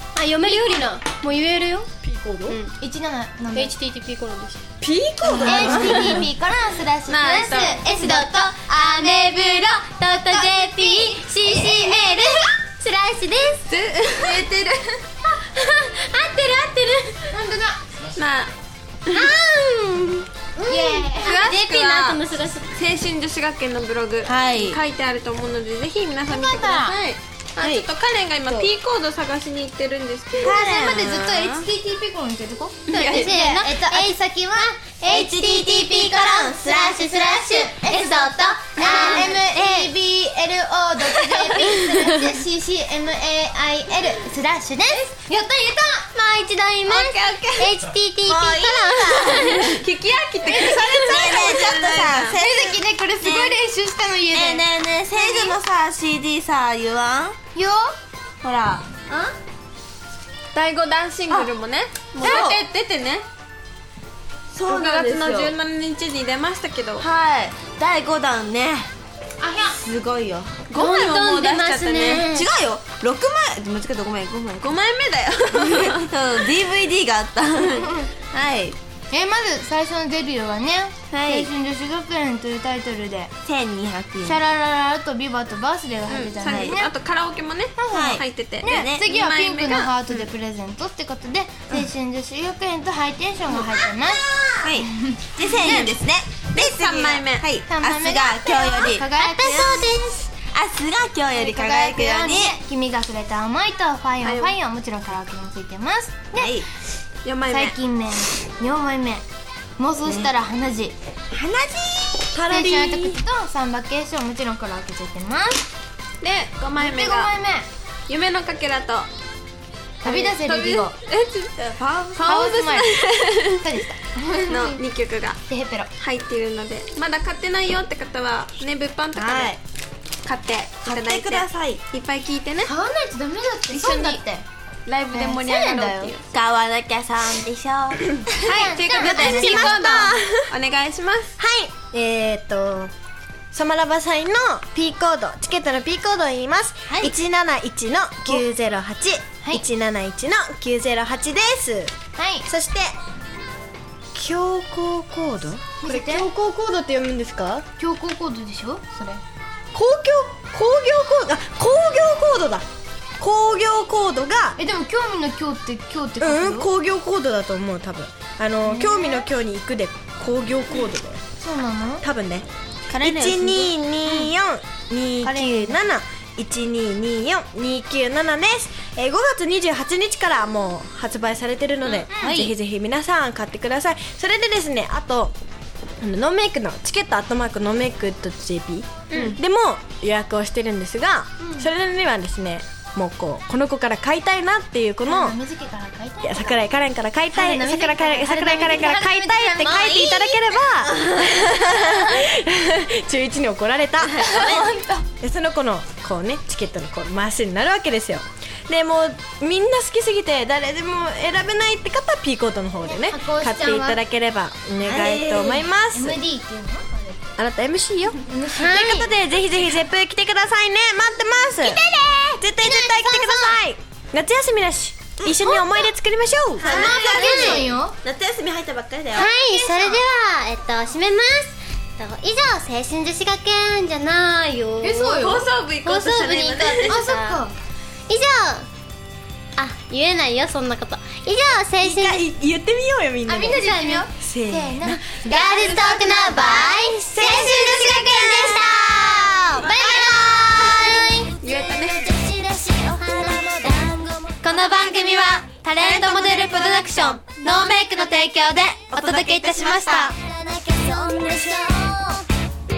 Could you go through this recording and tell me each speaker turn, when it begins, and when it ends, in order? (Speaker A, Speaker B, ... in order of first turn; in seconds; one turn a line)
Speaker A: 0.1-1.9
Speaker B: 2.0-2.6
Speaker A: 2.5-2.8
Speaker C: 2.8-3.8
Speaker A: 3.5-4.6
Speaker B: 4.8-6.2
Speaker C: 5.2-12.5
Speaker A: 5.4-5.8
Speaker D: 7.1-7.8
Speaker A: 7.8-13.7
Speaker D: 13.7-14.5
Speaker C: 14.2-14.9
Speaker A: 15.3-17.3
Speaker C: 17.3-17.8
Speaker D: 18.1-18.5
Speaker A: 19.1-22.7
Speaker C: 20.7-21.4
Speaker D: 21.2-22.2
Speaker D: 22.7-31.6
Speaker E: 24.2-24.8
Speaker C: 26.3-27.0
Speaker E: 27.6-27.9
Speaker E: 30.4-31.3
Speaker C: 30.4-36.5
Speaker D: 32.9-33.6
Speaker A: 33.5-35.4
Speaker E: 35.1-37.6
Speaker A: 36.0-39.9
Speaker C: 37.2-46.1
Speaker E: 38.8-39.9
Speaker A: 46.1-49.8
Speaker D: 46.9-47.5
Speaker E: 48.2-49.8
Speaker D: 49.4-52.4
Speaker E: 50.5-53.6
Speaker C: 50.5-55.5
Speaker E: 54.3-57.4
Speaker C: 57.5-57.9
Speaker E: 58.4-59.3
Speaker D: 60.5-63.2
Speaker E: 62.2-62.6
Speaker C: 62.2-62.5
Speaker E: 64.5-65.5
Speaker D: 64.6-67.0
Speaker E: 67.0-68.9
Speaker C: 69.4-69.8
Speaker E: 69.6-70.7
Speaker D: 70.7-72.3
Speaker A: 70.7-72.5
Speaker E: 72.2-74.7
Speaker D: 74.6-76.1
Speaker E: 75.5-78.8
Speaker C: 79.1-83.3
Speaker E: 81.1-81.5
Speaker E: 83.4-84.4
Speaker C: 84.2-86.9
Speaker D: 86.1-90.2
Speaker E: 86.4-86.8
Speaker C: 87.8-95.9
Speaker E: 87.9-89.0
Speaker E: 93.6-99.7
Speaker D: 96.5-97.5
Speaker C: 97.6-99.9
Speaker A: 99.2-100.3
Speaker E: 100.4-102.6
Speaker C: 101.3-106.6
Speaker D: 104.2-104.5
Speaker E: 106.3-106.6
Speaker D: 107.2-107.7
Speaker C: 107.5-109.2
Speaker C: 109.8-111.0
Speaker E: 111.3-112.3
Speaker B: 112.3-113.2
Speaker C: 112.5-115.6
Speaker D: 116.2-117.3
Speaker C: 116.8-117.7
Speaker D: 118.1-119.1
Speaker C: 120.0-120.9
Speaker D: 120.0-121.5
Speaker E: 121.6-122.2
Speaker D: 122.2-123.6
Speaker C: 122.2-123.0
Speaker C: 123.6-124.8
Speaker D: 124.5-125.4
Speaker C: 125.5-125.9
Speaker D: 126.0-129.6
Speaker E: 129.2-129.6
Speaker D: 130.2-132.7
Speaker E: 130.8-131.8
Speaker C: 132.6-134.4
Speaker D: 133.7-134.3
Speaker D: 134.8-136.2
Speaker C: 135.1-136.1
Speaker E: 136.3-138.3
Speaker C: 138.4-139.9
Speaker D: 138.4-141.3
Speaker B: 138.9-140.5
Speaker B: 141.4-142.9
Speaker B: 143.5-151.9
Speaker C: 146.8-147.1
Speaker C: 152.2-152.5
Speaker B: 152.4-152.9
Speaker B: 154.1-157.6
Speaker C: 155.8-156.3
Speaker C: 157.8-159.2
Speaker B: 159.7-162.7
Speaker B: 163.2-164.6
Speaker C: 164.6-166.7
Speaker B: 166.2-171.2
Speaker C: 168.6-169.2
Speaker C: 171.4-172.0
Speaker B: 172.0-172.4
Speaker E: 172.9-174.3
Speaker B: 173.0-185.3
Speaker C: 175.2-175.8
Speaker E: 181.9-182.5
Speaker B: 186.0-195.4
Speaker C: 195.0-196.6
Speaker B: 196.2-204.5
Speaker C: 197.3-200.0
Speaker E: 199.6-200.2
Speaker E: 200.9-201.3
Speaker E: 204.0-204.8
Speaker C: 204.3-205.0
Speaker B: 205.2-216.2
Speaker C: 212.9-214.0
Speaker E: 214.8-215.6
Speaker C: 215.9-217.3
Speaker B: 217.4-221.8
Speaker C: 218.2-219.0
Speaker A: 218.5-219.1
Speaker A: 221.6-223.5
Speaker B: 222.4-226.9
Speaker E: 225.2-225.6
Speaker C: 226.6-228.0
Speaker E: 226.6-229.3
Speaker A: 226.9-227.6
Speaker A: 229.1-235.2
Speaker C: 229.1-230.0
Speaker C: 234.8-235.4
Speaker D: 235.0-237.3
Speaker A: 235.8-237.4
Speaker C: 236.9-237.5
Speaker A: 238.1-238.7
Speaker A: 239.6-242.2
Speaker B: 241.8-245.2
Speaker C: 243.3-245.8
Speaker A: 245.2-262.2
Speaker E: 245.7-246.0
Speaker E: 246.9-250.9
Speaker D: 251.4-252.1
Speaker E: 256.1-256.4
Speaker B: 258.9-259.9
Speaker E: 258.9-260.1